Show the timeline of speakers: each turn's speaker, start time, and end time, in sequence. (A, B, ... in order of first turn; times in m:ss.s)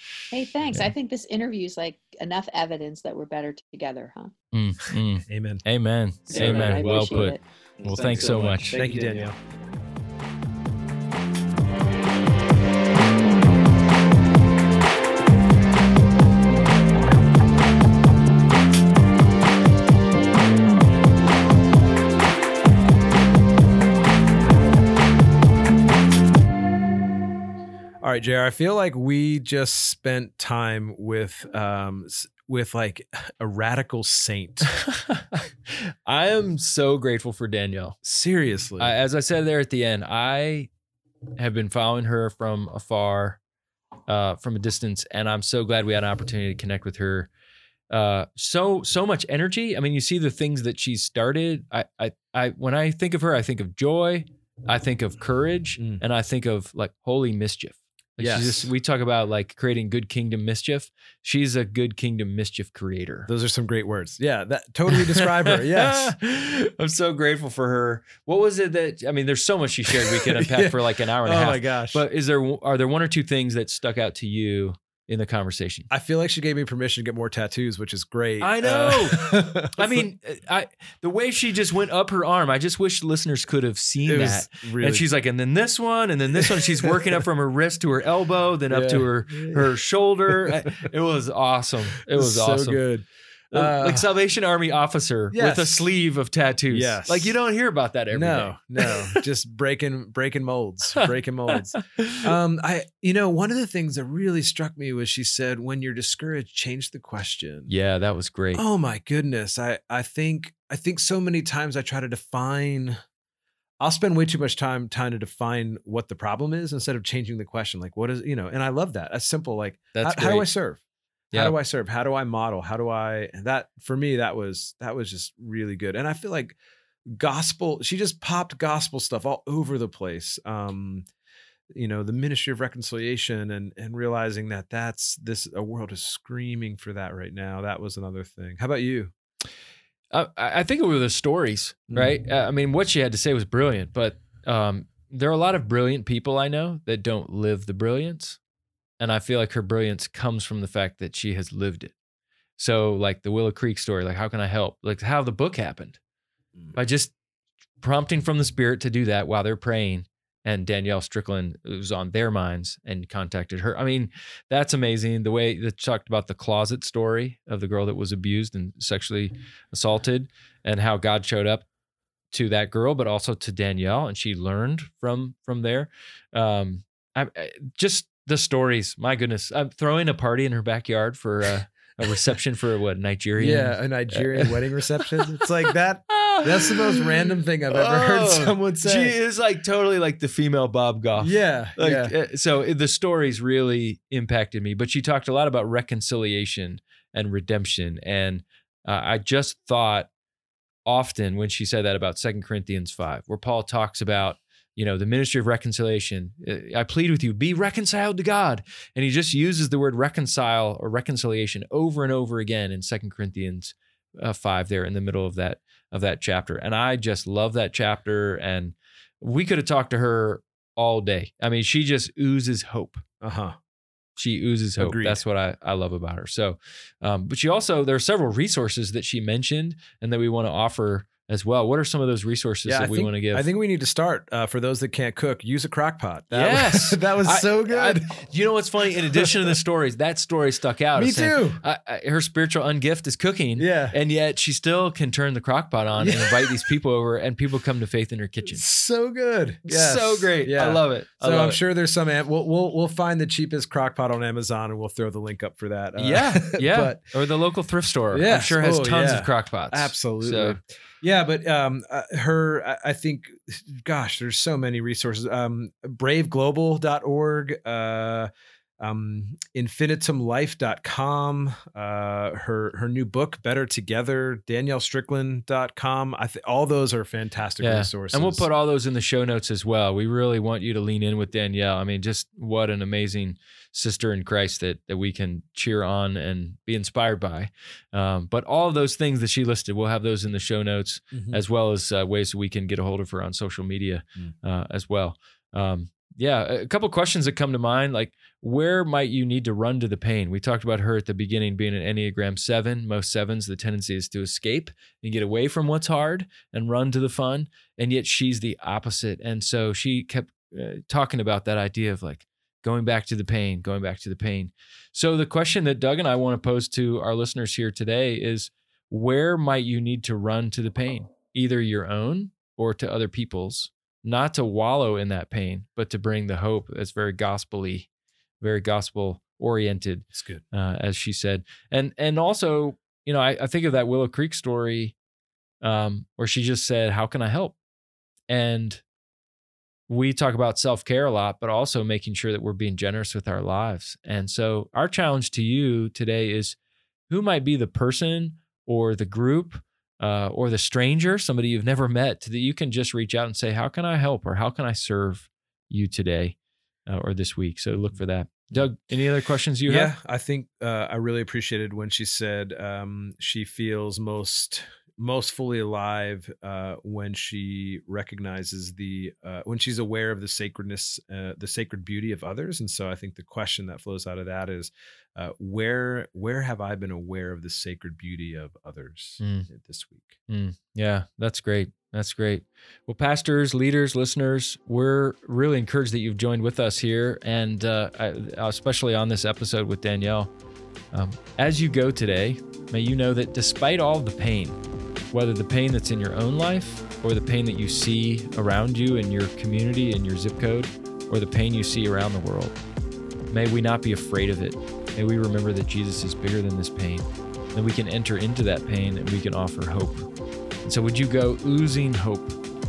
0:00.3-0:04.3 A
0:04.5-0:09.3 B
0:05.3-0:05.6 C
0:06.3-0:07.2 C
0:06.3-0:07.4 A
0:07.9-0:09.4 C
0:28.0-0:34.8 C
0:34.9-0:35.4 B
0:36.0-0:38.0 B
0:38.0-0:38.9 C
0:38.8-0:40.7 B
0:41.4-0:43.4 B
0:44.1-0:47.3 B
0:47.9-1:03.3 B
0:58.2-0:58.7 C
1:03.3-1:06.2 C
1:04.9-1:15.9 B
1:10.0-1:12.0 C
1:15.9-1:20.0 C
1:18.4-1:32.8 B
1:24.0-1:25.1 C
1:26.4-1:26.9 C
1:28.7-1:29.7 C
1:30.3-1:30.7 C
1:32.1-1:34.1 C
1:33.5-1:39.2 B
1:35.3-1:35.9 C
1:36.7-1:37.4 C
1:38.1-1:47.7 C
1:41.8-1:42.2 B
1:47.7-1:48.6 B
1:48.6-1:53.0 C
1:53.8-2:00.8 C
1:59.9-2:00.5 B
2:01.3-2:06.6 C
2:07.1-2:11.0 C
2:11.7-2:19.1 C
2:20.1-2:28.4 B
2:29.0-2:31.9 B
2:32.6-2:36.0 B
2:36.7-2:37.1 B
2:37.8-2:51.7 B
2:52.3-3:04.6 B
3:03.4-3:09.2 C
3:06.1-3:07.1 B
3:07.7-3:20.1 B
3:11.2-3:12.1 C
3:20.9-3:43.0 B
3:43.2-3:43.6 C
3:44.2-3:53.5 B
3:44.8-3:45.2 C
3:52.7-3:58.3 C
3:56.3-4:08.6 B
3:59.1-3:59.5 C
4:01.0-4:01.6 C
4:03.6-4:04.0 C
4:06.0-4:06.7 C
4:08.5-4:17.2 C
4:09.7-4:11.6 B
4:16.0-4:20.6 B
4:18.1-4:38.5 C
4:37.6-5:27.9 B
4:51.1-4:51.4 C
5:28.4-5:35.0 B
5:30.1-5:30.4 C
5:35.6-5:37.6 B
5:38.3-5:38.8 B
5:39.9-5:46.6 B
5:47.1-5:59.9 B
5:59.7-6:20.2 C
6:19.2-6:19.5 B
6:20.3-6:30.3 B
6:30.9-6:34.6 B
6:35.1-6:42.6 B
6:43.3-6:50.1 B
6:50.6-6:52.4 B